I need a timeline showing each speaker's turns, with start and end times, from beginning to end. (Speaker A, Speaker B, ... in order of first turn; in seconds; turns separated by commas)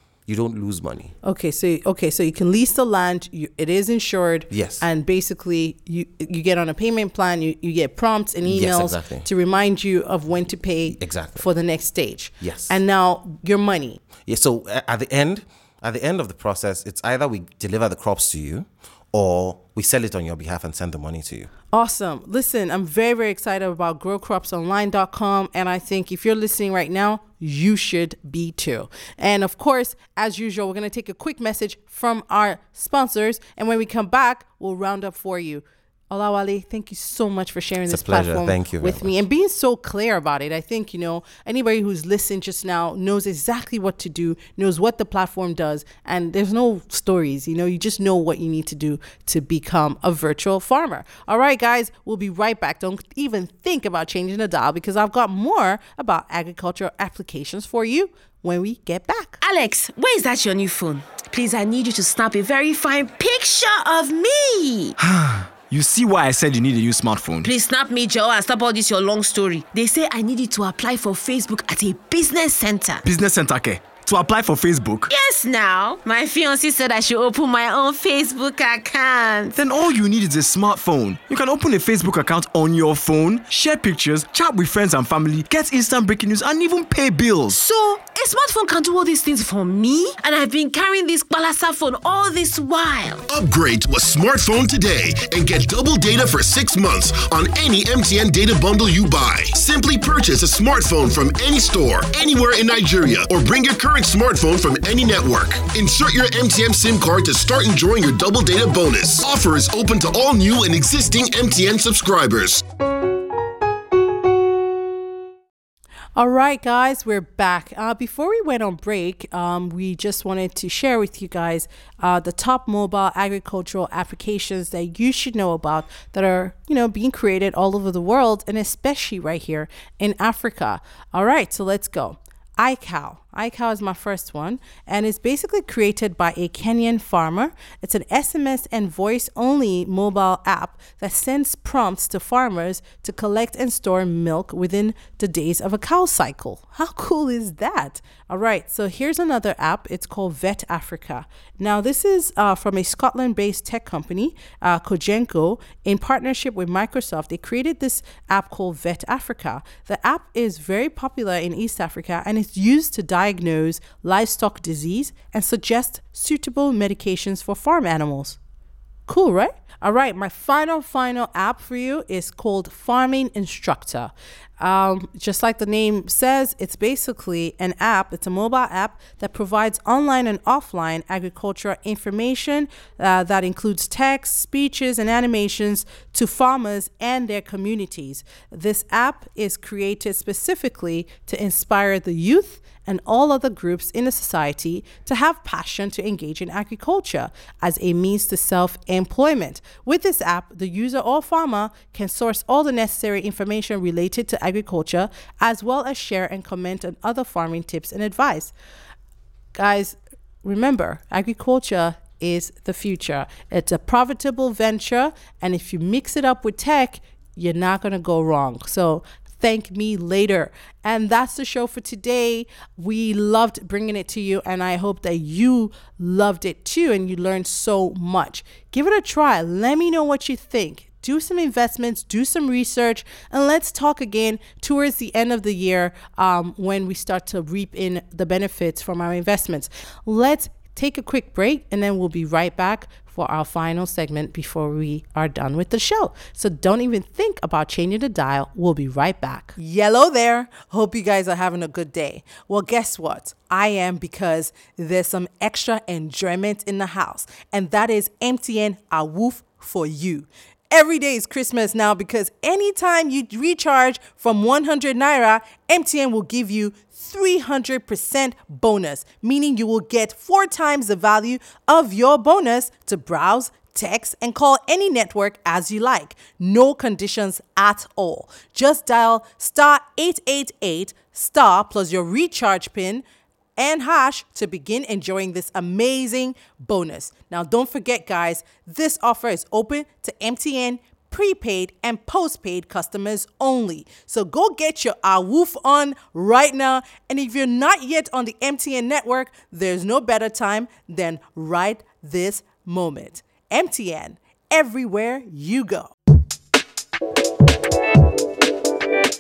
Speaker A: 0.3-1.1, Speaker B: 1.2-14.0, Speaker A: 4.5-4.8, Speaker A: 8.4-9.3, Speaker A: 10.8-11.4, Speaker A: 12.4-12.8, Speaker A: 14.2-21.5, Speaker B: 21.7-59.4, Speaker A: 37.9-39.2, Speaker C: 59.4-65.0, Speaker D: 65.0-67.5, Speaker C: 67.4-73.0, Speaker D: 73.0-75.1, Speaker C: 75.1-79.6, Speaker D: 79.5-87.6, Speaker C: 87.5-93.2, Speaker E: 93.3-112.6, Speaker B: 116.2-168.4, Speaker B: 169.1-208.5, Speaker B: 209.6-283.0, Speaker B: 283.6-305.9